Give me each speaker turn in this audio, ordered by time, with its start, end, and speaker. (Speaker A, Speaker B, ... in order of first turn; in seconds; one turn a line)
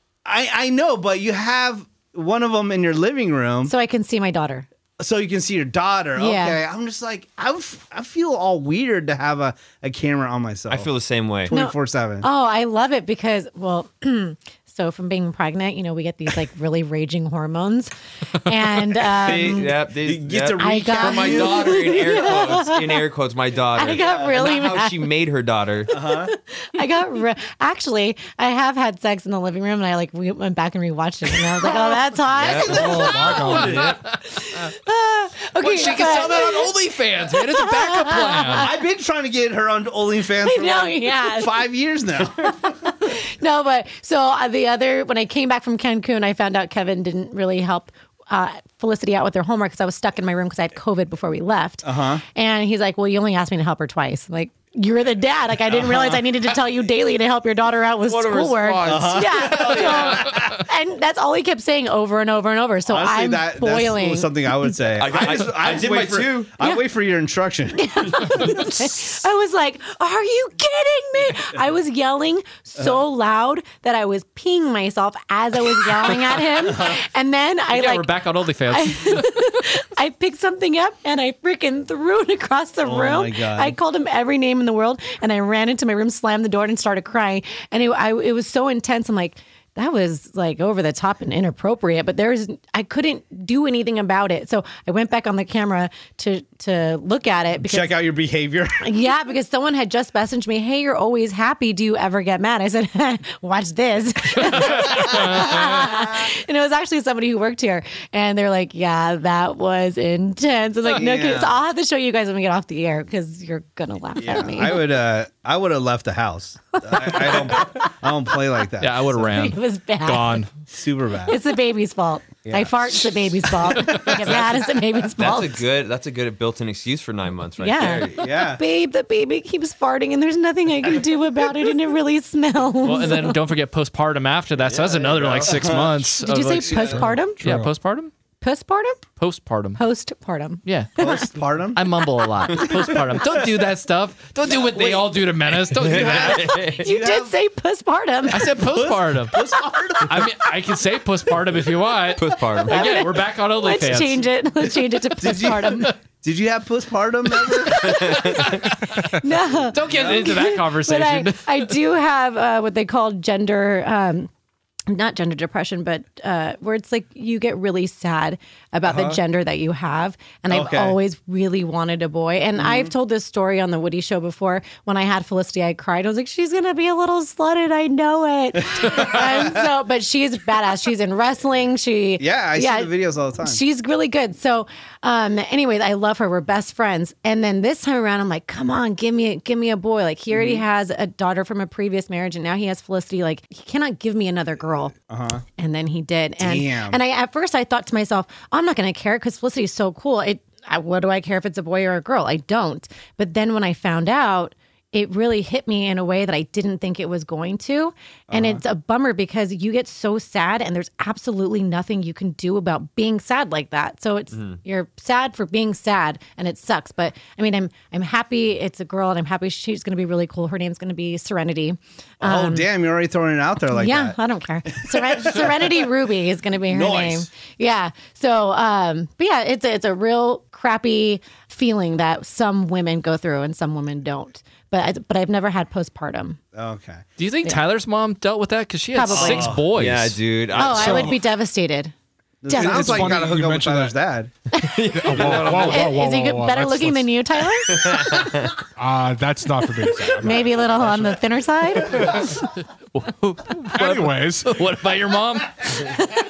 Speaker A: 0.2-3.7
Speaker B: 3.6-4.7
Speaker A: 5.0-10.9
Speaker B: 6.2-6.6
Speaker C: 10.7-11.5
Speaker A: 11.4-12.3
Speaker B: 11.5-19.7
Speaker C: 19.1-25.9
Speaker A: 20.0-22.3
Speaker B: 20.6-23.0
Speaker B: 23.8-25.1
Speaker A: 24.0-24.3
Speaker A: 25.9-26.3
Speaker B: 26.1-36.7
Speaker A: 31.6-34.0
Speaker C: 32.4-33.1
Speaker D: 32.7-34.0
Speaker E: 33.6-34.2
Speaker E: 35.6-38.7
Speaker B: 37.3-38.7
Speaker A: 38.5-42.9
Speaker B: 40.4-41.6
Speaker B: 42.4-64.3
Speaker A: 51.8-52.2
Speaker A: 55.7-56.2
Speaker C: 58.1-60.0
Speaker A: 58.8-60.5
Speaker A: 62.9-68.6
Speaker C: 65.0-66.5
Speaker B: 67.8-78.1
Speaker A: 76.7-77.0
Speaker E: 77.7-79.6
Speaker B: 78.7-97.9
Speaker A: 82.8-83.8
Speaker A: 97.6-98.8
Speaker B: 98.8-114.8
Speaker E: 104.5-105.6
Speaker A: 104.8-105.3
Speaker A: 110.8-111.5
Speaker A: 114.2-119.3
Speaker B: 116.9-117.8
Speaker E: 118.8-120.5
Speaker B: 119.2-120.4
Speaker A: 120.7-121.4
Speaker B: 121.3-125.6
Speaker A: 122.4-122.9
Speaker E: 123.9-124.1
Speaker C: 125.2-128.2
Speaker B: 127.6-133.4
Speaker A: 128.1-128.6
Speaker E: 132.8-138.1
Speaker C: 134.8-135.5
Speaker A: 134.9-137.0
Speaker B: 136.2-137.4
Speaker D: 136.8-137.7
Speaker B: 138.4-139.0
Speaker E: 139.2-139.8
Speaker B: 139.7-141.2
Speaker E: 140.6-140.9
Speaker A: 141.0-143.6
Speaker E: 141.7-146.5
Speaker A: 144.4-147.3
Speaker C: 145.8-146.8
Speaker B: 146.5-148.6
Speaker E: 148.3-149.5
Speaker A: 148.4-150.4
Speaker E: 150.0-154.2
Speaker C: 152.2-153.0
Speaker B: 152.7-155.9
Speaker A: 155.2-158.2
Speaker B: 157.7-158.2
Speaker C: 157.8-158.6
Speaker B: 159.2-164.3
Speaker E: 159.7-161.7
Speaker A: 159.8-160.3
Speaker B: 164.9-182.9
Speaker A: 168.9-169.2
Speaker A: 170.5-170.9
Speaker A: 172.6-172.9
Speaker A: 178.8-179.5
Speaker A: 182.2-183.6
Speaker B: 183.4-194.9
Speaker A: 190.3-190.6
Speaker A: 195.0-195.4
Speaker B: 195.6-222.7
Speaker A: 196.4-197.0
Speaker A: 208.3-208.6
Speaker C: 214.3-214.6
Speaker A: 222.2-224.2
Speaker B: 223.7-236.4
Speaker A: 224.7-225.8
Speaker A: 226.7-227.3
Speaker A: 236.5-237.0
Speaker E: 237.2-240.2
Speaker B: 238.9-239.5
Speaker A: 239.1-239.7
Speaker C: 239.7-241.1
Speaker B: 240.6-241.9
Speaker D: 240.6-241.2
Speaker A: 242.4-244.3
Speaker B: 242.5-243.2
Speaker D: 242.5-243.9
Speaker B: 244.5-248.3
Speaker C: 244.6-245.9
Speaker D: 244.9-247.1
Speaker C: 247.7-248.6
Speaker D: 248.8-251.2
Speaker B: 250.2-252.3
Speaker E: 252.0-256.1
Speaker D: 253.7-254.7